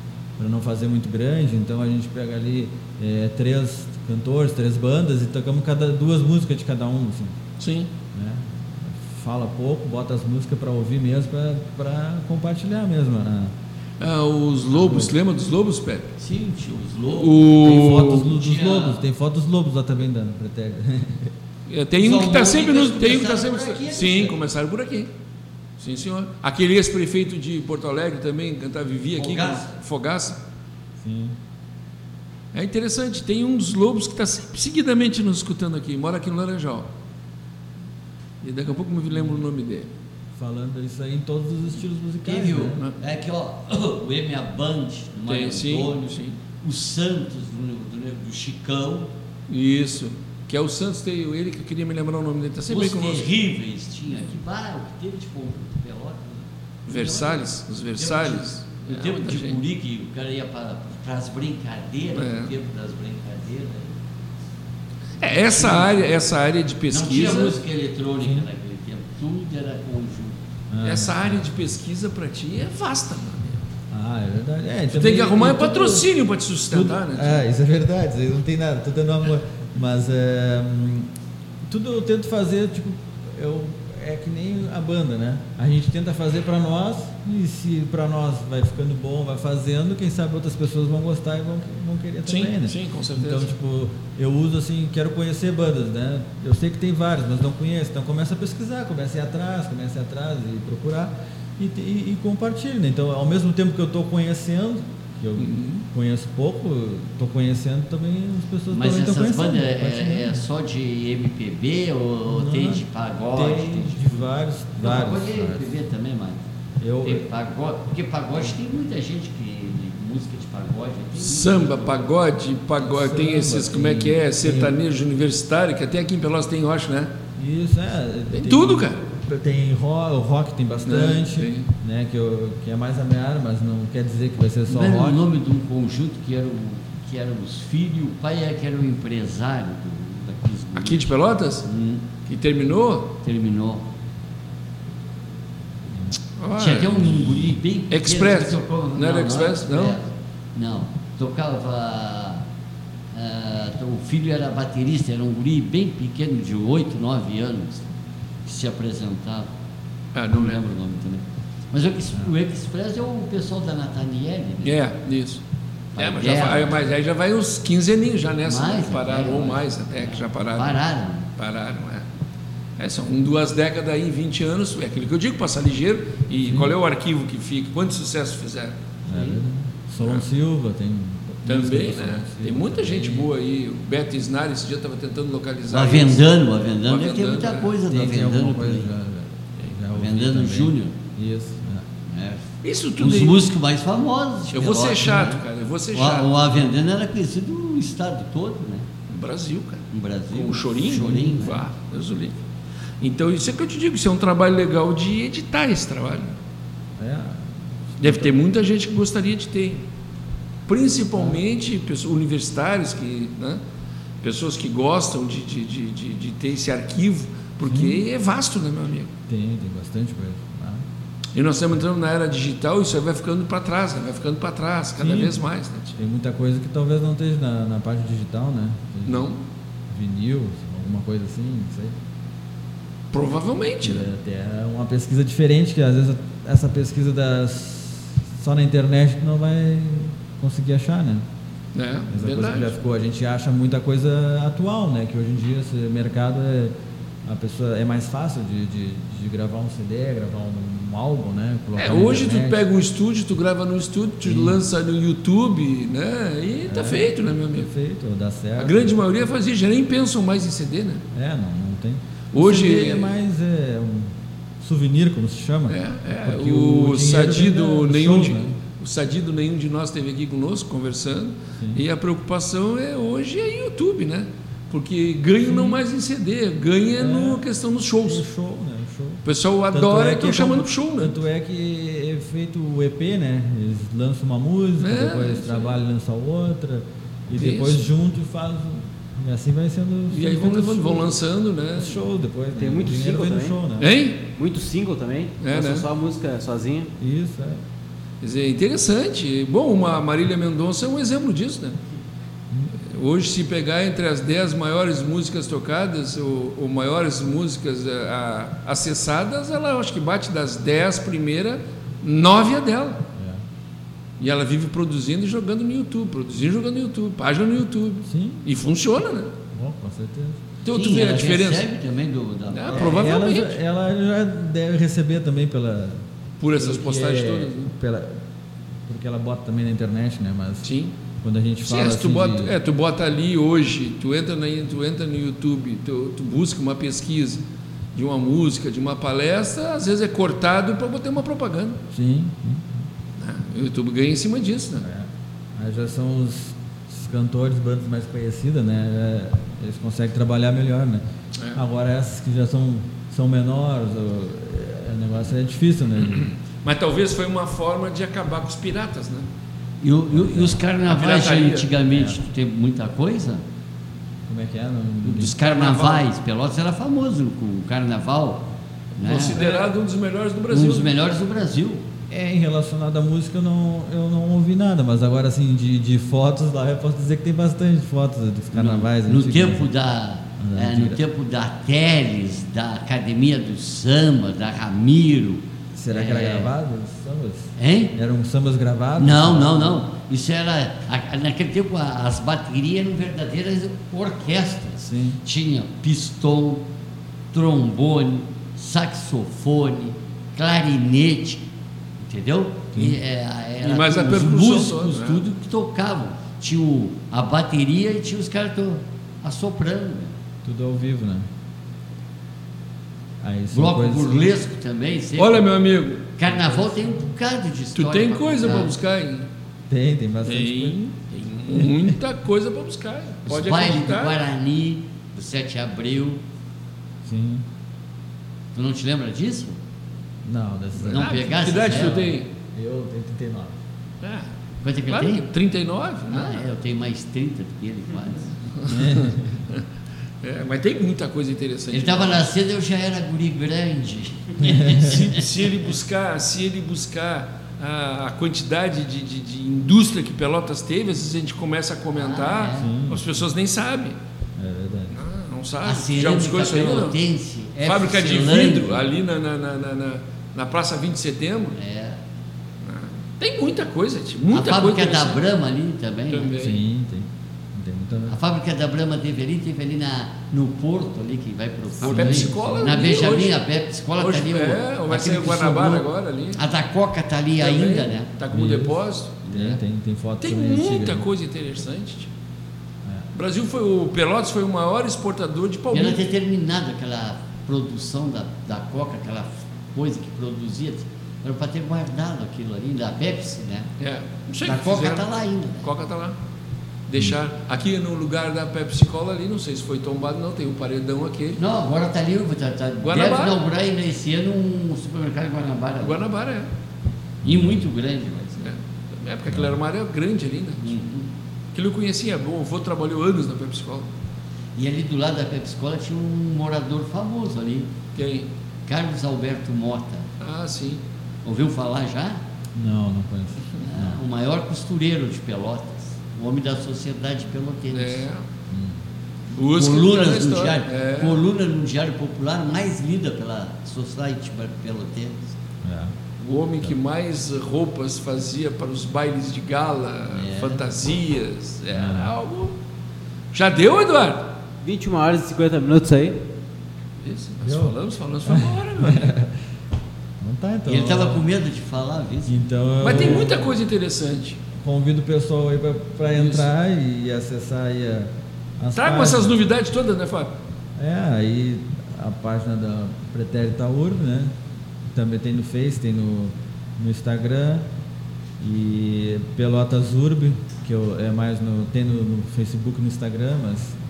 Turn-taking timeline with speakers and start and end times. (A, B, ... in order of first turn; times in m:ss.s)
0:00.4-0:07.4 A
0:07.6-0:07.9 B
0:08.1-0:13.5 A
0:14.0-0:16.1 B
0:14.7-0:15.1 A
0:16.2-0:19.0 C
0:17.2-0:18.3 B
0:17.6-0:21.3 A
0:21.7-0:25.1 B
0:22.0-0:24.4 C
0:25.8-0:30.4 B
0:29.2-0:29.7 C
0:31.0-0:31.4 A
0:32.5-0:36.9 B
0:38.4-0:39.9 B
0:39.1-0:39.5 A
0:40.4-0:42.8 A
0:42.2-0:49.1 C
0:45.3-0:46.4 B
0:49.5-0:53.3 B
0:52.7-0:57.5 C
0:54.1-0:54.4 B
0:56.9-0:59.6 B
0:58.0-1:03.9 C
1:02.1-1:02.5 B
1:05.2-1:07.6 B
1:05.3-1:06.2 C
1:06.9-1:10.4 C
1:08.2-1:08.5 A
1:10.7-1:11.7 A
1:10.8-1:13.6 B
1:13.9-1:16.1 A
1:14.9-1:17.4 B
1:16.7-1:21.1 A
1:21.6-1:50.5 A
1:32.3-1:33.5 B
1:45.4-1:45.8 B
1:48.7-1:54.2 C
1:52.3-1:55.7 A
1:54.8-1:56.5 C
1:56.8-1:57.2 A
1:57.0-2:02.1 C
2:01.2-2:07.1 B
2:02.8-2:04.8 A
2:07.4-2:15.2 A
2:08.3-2:09.0 B
2:10.9-2:11.7 B
2:14.7-2:22.1 C
2:20.8-2:21.7 B
2:22.3-2:23.1 B
2:23.2-2:23.9 C
2:26.4-2:27.3 B
2:26.6-2:32.4 C
2:27.1-2:27.4 A
2:27.9-2:30.0 B
2:33.1-2:37.9 C
2:38.4-2:39.5 C
2:40.1-2:40.6 B
2:40.3-2:44.8 C
2:44.6-2:45.4 B
2:46.0-2:46.9 C
2:46.0-2:50.8 B
2:48.5-2:51.3 C
2:51.4-2:52.1 B
2:52.8-2:58.8 B
2:56.4-2:56.8 A
2:59.1-3:03.3 A
3:01.5-3:06.2 B
3:05.7-3:08.9 C
3:06.8-3:07.7 B
3:07.9-3:11.9 A
3:09.9-3:11.0 C
3:12.1-3:15.4 C
3:12.6-3:13.5 B
3:14.5-3:16.3 B
3:15.9-3:18.9 C
3:19.1-3:22.4 B
3:19.9-3:21.6 C
3:23.0-3:26.4 B
3:27.0-3:28.4 A
3:28.0-3:29.9 B
3:30.7-3:33.6 B
3:34.2-3:39.1 B
3:37.6-3:38.0 A
3:39.3-3:40.9 A
3:41.4-3:46.0 B
3:45.0-3:49.3 A
3:49.1-3:49.4 B
3:49.9-3:52.0 A
3:53.1-3:54.1 B
3:53.8-4:01.2 A
4:01.8-4:02.7 B
4:02.1-4:12.6 A
4:11.8-4:17.7 B
4:14.2-4:14.6 A
4:16.7-4:19.0 A
4:18.6-4:21.0 B
4:21.1-4:28.6 A
4:22.3-4:23.1 B
4:25.7-4:38.2 B
4:31.6-4:31.8 A
4:35.4-4:35.8 A
4:37.0-4:37.4 A
4:38.0-4:51.2 A
4:39.2-4:41.2 B
4:44.8-4:45.8 B
4:47.4-4:47.9 B
4:50.1-4:52.0 B
4:51.8-4:53.9 A
4:52.6-4:53.6 D
4:53.8-4:54.2 B
4:54.4-4:56.9 D
4:55.4-4:55.8 B
4:57.0-4:57.6 A
4:58.2-5:01.8 B
5:02.8-5:13.0 B
5:13.1-5:13.4 A
5:14.2-5:19.3 B
5:18.1-5:18.5 A
5:19.5-5:20.4 A
5:20.6-5:21.7 B
5:20.7-5:23.2 C
5:22.5-5:23.6 B
5:22.7-5:26.0 A
5:26.4-5:27.7 B
5:26.6-5:28.2 A
5:28.9-5:30.7 A
5:30.6-5:31.0 B
5:31.2-5:32.6 A
5:31.7-5:37.4 B
5:37.9-5:41.8 B
5:41.9-5:42.9 A
5:43.2-5:44.9 B
5:44.8-5:51.0 A
5:51.5-5:56.3 A
5:56.0-5:59.3 B
5:59.8-6:03.4 C
6:00.1-6:00.6 A
6:00.9-6:01.7 B
6:01.8-6:02.2 A
6:04.3-6:05.4 A
6:05.0-6:08.4 C
6:05.4-6:06.0 B
6:09.0-6:09.6 C
6:09.0-6:10.9 B
6:10.5-6:11.8 C
6:12.1-6:19.7 A
6:18.5-6:26.5 C
6:20.4-6:21.0 A
6:25.7-6:29.8 A
6:27.6-6:27.9 C
6:29.0-6:36.6 C
6:34.8-6:35.2 A
6:37.3-6:41.5 C
6:42.0-6:50.1 C
6:42.7-6:43.0 A
6:43.6-6:45.2 B
6:50.4-6:51.3 A
6:53.2-6:54.4 A
6:53.5-6:55.5 C
6:55.2-6:56.6 B
6:56.2-6:58.8 C
6:56.3-6:56.9 A
6:57.8-6:59.3 B
6:59.7-7:00.8 A
7:00.2-7:04.2 B
7:01.5-7:02.0 A
7:03.3-7:06.2 C
7:07.0-7:07.4 A
7:08.5-7:09.6 C
7:10.2-7:13.6 A
7:10.8-7:12.3 B
7:10.9-7:12.1 C
7:14.0-7:14.3 B
7:14.6-7:15.2 C
7:14.9-7:16.5 B
7:16.1-7:18.4 C
7:18.6-7:19.6 B
7:18.7-7:19.4 A
7:20.2-7:22.3 B
7:21.7-7:25.2 C
7:24.4-7:25.1 A
7:24.7-7:34.0 B
7:32.0-7:32.7 C
7:32.6-7:33.1 A
7:34.4-7:35.0 A
7:34.9-7:37.0 B
7:35.6-7:38.9 C
7:37.6-7:41.6 B
7:41.6-7:42.0 C
7:42.6-7:45.2 B
7:44.3-7:46.4 C
7:46.1-7:46.6 B
7:46.4-7:48.2 A
7:48.1-7:58.1 C
7:51.8-7:53.4 B
7:51.8-7:52.7 A
7:54.0-7:56.4 B
7:57.4-7:59.1 B
7:58.3-8:01.1 A
7:59.2-7:59.6 C
8:00.2-8:02.1 B
8:03.1-8:06.0 B
8:05.7-8:13.7 C
8:13.8-8:15.1 B
8:14.4-8:15.7 C
8:15.6-8:16.2 B
8:16.9-8:21.4 B
8:21.4-8:26.0 C
8:22.8-8:23.4 B
8:25.8-8:26.5 B
8:27.2-8:27.7 A
8:27.2-8:28.4 C
8:28.4-8:30.7 B
8:29.3-8:29.6 A
8:30.6-8:31.1 C
8:31.5-8:33.9 B
8:34.6-8:37.7 C
8:38.0-8:38.3 B
8:38.7-8:40.1 C
8:40.2-8:40.8 B
8:41.2-8:42.2 C
8:42.6-8:44.0 A
8:43.6-8:48.0 C
8:47.7-8:48.2 B
8:48.5-8:48.8 A
8:49.3-8:51.2 B
8:49.5-8:55.4 C
8:55.6-8:55.9 A
8:56.2-9:02.6 B
9:00.1-9:00.7 C
9:01.7-9:02.1 A
9:03.3-9:04.3 B
9:04.6-9:06.2 D
9:07.0-9:09.2 B
9:07.4-9:09.3 A
9:10.2-9:11.3 A
9:10.7-9:13.3 C
9:12.3-9:13.6 A
9:12.8-9:14.4 B
9:14.6-9:19.4 A
9:16.1-9:16.5 B
9:18.8-9:20.3 B
9:20.8-9:24.3 A
9:24.9-9:27.7 A
9:28.4-9:33.8 A